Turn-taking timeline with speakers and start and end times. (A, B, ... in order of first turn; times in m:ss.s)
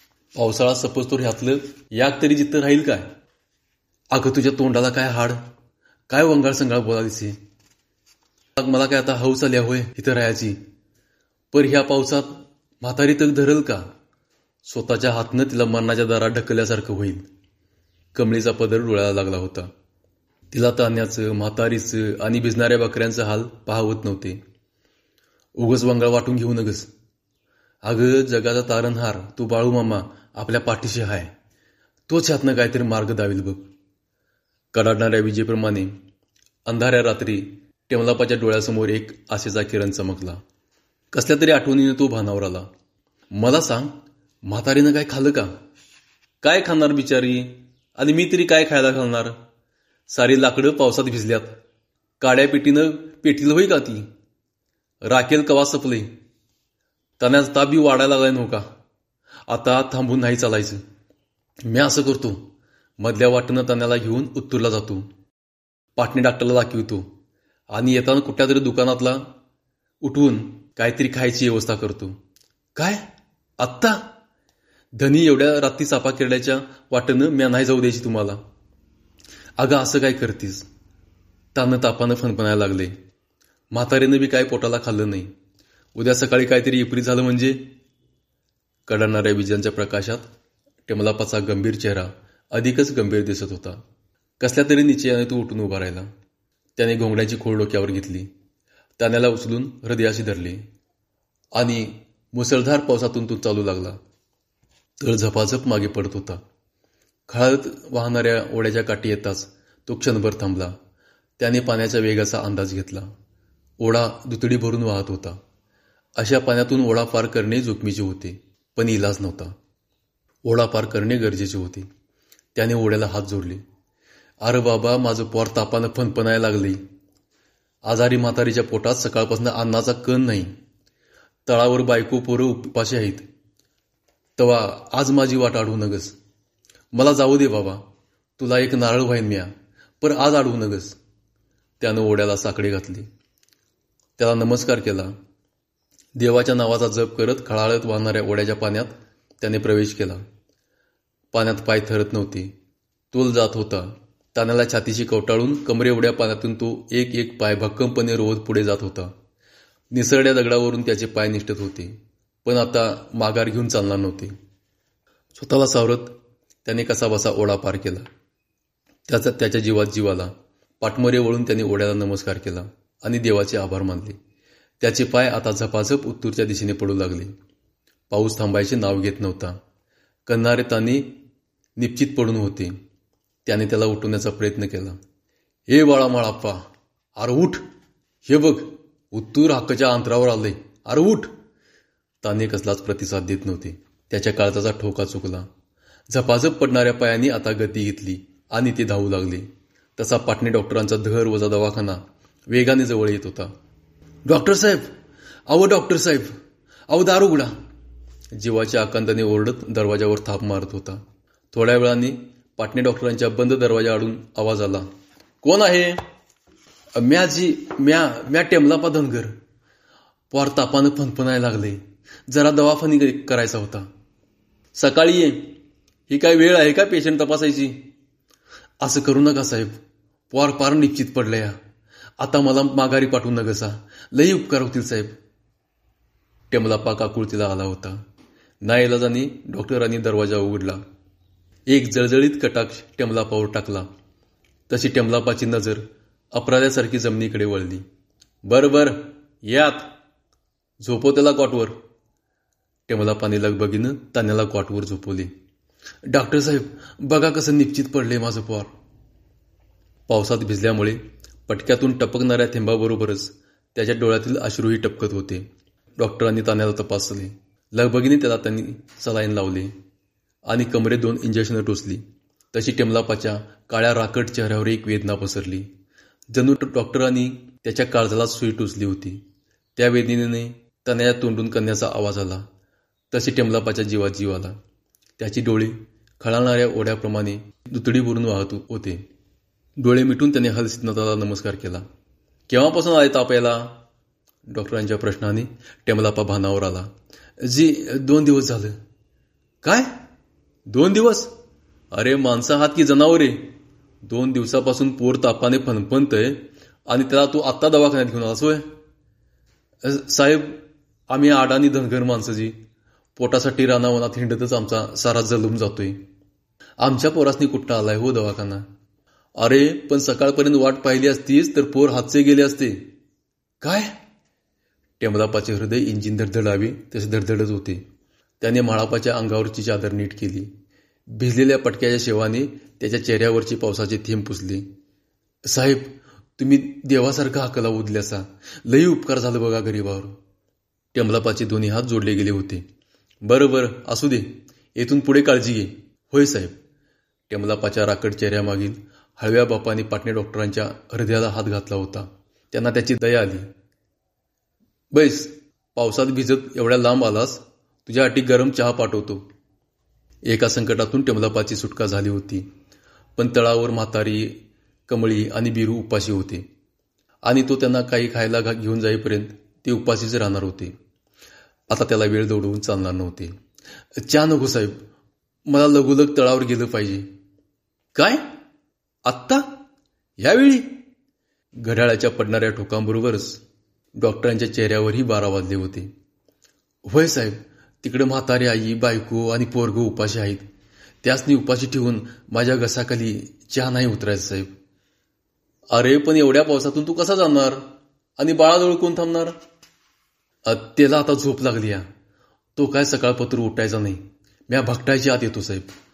0:00.4-0:03.1 A
0:04.1-0:05.4 A
0:06.1-0:07.4 A
0:08.6-0:10.6 A
0:11.5-0:13.8 A
0:14.7-0:17.2 A
0:18.2-0:19.7 A
0:20.5-0:24.4 A
0:25.6-0:26.9 A
0:27.8-0:31.3 A
0:32.1-0:33.7 A
0:34.7-0:35.9 A
0:36.7-0:40.4 A
0:41.1-0:42.7 A
0:43.3-0:43.9 A
0:44.5-0:45.5 A
0:46.4-0:49.4 A
0:50.1-0:51.6 A
0:52.2-0:54.1 A
0:55.0-0:56.1 A
0:57.2-0:58.6 A
0:59.5-1:00.8 A
1:01.7-1:02.4 A
1:03.0-1:05.1 A
1:06.0-1:07.1 A
1:07.7-1:09.3 A
1:10.0-1:12.2 A
1:12.8-1:13.0 A
1:13.6-1:14.1 A
1:15.0-1:18.4 A
1:19.6-1:20.7 A
1:21.6-1:22.9 A
1:23.7-1:25.3 A
1:26.0-1:27.7 A
1:28.9-1:30.2 A
1:30.9-1:33.8 A
1:34.4-1:36.1 A
1:36.8-1:38.3 A
1:39.0-1:40.6 A
1:41.6-1:44.0 A
1:45.0-1:46.4 A
1:47.3-1:50.8 A
1:51.4-1:53.1 A
1:53.8-1:55.4 A
1:56.2-1:59.5 A
2:00.5-2:01.9 A
2:02.6-2:03.6 A
2:04.4-2:06.8 A
2:07.8-2:10.5 A
2:11.5-2:13.3 A
2:14.4-2:16.2 A
2:16.9-2:17.8 A
2:18.4-2:21.0 A
2:21.8-2:23.1 A
2:24.2-2:25.1 A
2:26.2-2:30.2 A
2:31.3-2:32.5 A
2:33.1-2:39.1 A
2:39.9-2:44.3 A
2:45.4-2:46.1 A
2:46.6-2:48.1 A
2:49.1-2:54.2 A
2:54.8-2:57.3 A
2:58.1-2:59.6 A
3:00.3-3:01.2 A
3:01.8-3:02.8 A
3:03.5-3:05.0 A
3:05.7-3:06.6 A
3:07.2-3:07.6 A
3:08.3-3:11.3 A
3:12.2-3:15.5 A
3:16.1-3:23.5 A
3:24.3-3:24.9 A
3:25.5-3:26.3 A
3:26.9-3:27.5 A
3:28.4-3:31.0 A
3:31.5-3:34.9 A
3:35.4-3:36.0 A
3:37.0-3:39.3 A
3:40.3-3:43.9 A
3:44.8-3:45.6 A
3:46.1-3:47.9 A
3:48.8-3:49.8 A
3:50.3-3:51.6 A
3:52.2-3:55.2 A
3:56.5-3:58.0 A
3:58.6-4:00.8 A
4:01.7-4:03.9 A
4:04.7-4:07.8 A
4:08.5-4:09.9 A
4:10.8-4:11.8 A
4:12.9-4:15.3 A
4:16.1-4:18.7 A
4:20.1-4:25.5 A
4:26.0-4:29.7 A
4:30.5-4:35.7 A
4:36.3-4:39.2 A
4:39.8-4:42.4 A
4:43.1-4:44.6 A
4:45.2-4:49.0 A
4:49.8-4:51.8 A
4:52.5-4:53.8 A
4:54.5-4:58.8 A
4:59.6-4:59.9 A
5:00.7-5:01.3 A
5:01.9-5:03.6 A
5:04.1-5:08.7 A
5:09.8-5:12.5 A
5:13.2-5:16.0 A
5:16.8-5:18.6 A
5:19.4-5:22.9 A
5:23.6-5:23.9 A
5:25.0-5:27.8 A
5:28.4-5:30.5 A
5:31.1-5:34.7 A
5:35.5-5:40.2 A
5:40.9-5:42.6 A
5:43.2-5:46.6 A
5:47.3-5:53.5 A
5:54.9-5:59.3 A
6:00.3-6:02.4 A
6:03.2-6:06.5 A
6:07.2-6:10.8 A
6:11.7-6:13.4 A
6:14.0-6:14.8 A
6:15.5-6:17.1 A
6:18.0-6:18.2 A
6:19.1-6:19.6 A
6:20.2-6:20.9 A
6:21.6-6:23.4 A
6:24.0-6:25.9 A
6:26.9-6:30.5 A
6:31.0-6:34.5 A
6:35.7-6:39.4 A
6:40.4-6:41.9 A
6:42.6-6:45.7 A